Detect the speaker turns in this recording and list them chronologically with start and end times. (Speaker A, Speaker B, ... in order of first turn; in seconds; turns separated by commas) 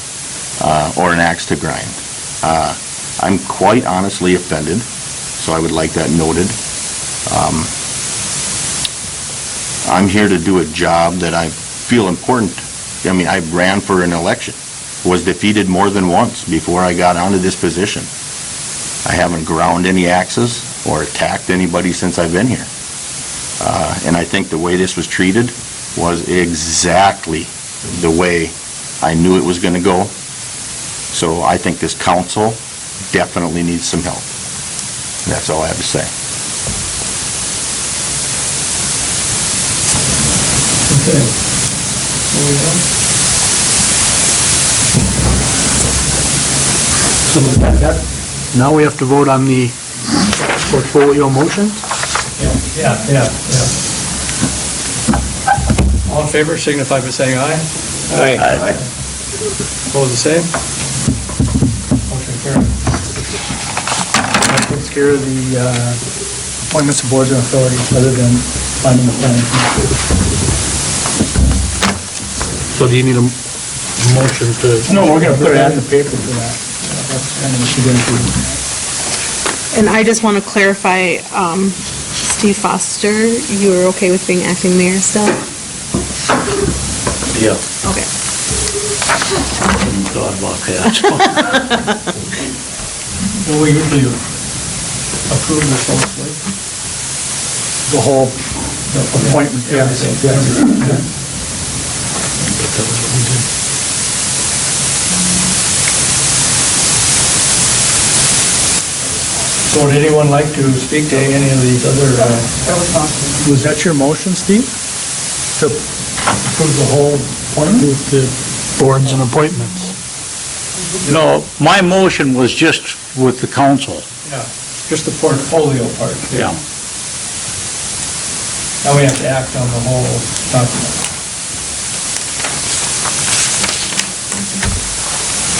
Speaker A: 0.6-4.8, Speaker A: 5.4-6.6, Speaker A: 7.3-7.7, Speaker A: 9.8-18.1, Speaker A: 19.0-22.7, Speaker A: 23.6-30.1, Speaker A: 31.1-32.6, Speaker A: 33.1-34.3, Speaker A: 35.2-36.1, Speaker B: 40.9-41.3, Speaker B: 42.3-42.8, Speaker C: 47.6-47.9, Speaker D: 48.5-49.7, Speaker C: 48.6-49.5, Speaker C: 50.7-51.6, Speaker D: 50.7-51.6, Speaker B: 52.4-53.7, Speaker B: 56.0-57.7, Speaker E: 58.1-58.5, Speaker A: 58.4-58.8, Speaker B: 59.9-60.5, Speaker B: 62.1-62.8, Speaker C: 64.4-66.0, Speaker C: 66.7-69.9, Speaker D: 72.7-73.3, Speaker D: 74.0-75.6, Speaker C: 74.8-78.6, Speaker B: 76.8-77.1, Speaker F: 79.7-85.4, Speaker F: 87.8-88.1, Speaker E: 89.8-91.3, Speaker B: 93.3-94.2, Speaker B: 95.3-96.4, Speaker C: 97.9-98.3, Speaker B: 98.9-101.0, Speaker C: 99.1-100.7, Speaker D: 102.5-103.4, Speaker B: 109.7-112.7, Speaker C: 113.4-114.7, Speaker C: 116.4-117.9, Speaker D: 117.8-119.9, Speaker E: 121.0-124.0, Speaker B: 124.2-126.5, Speaker E: 126.3-126.6, Speaker B: 128.8-131.0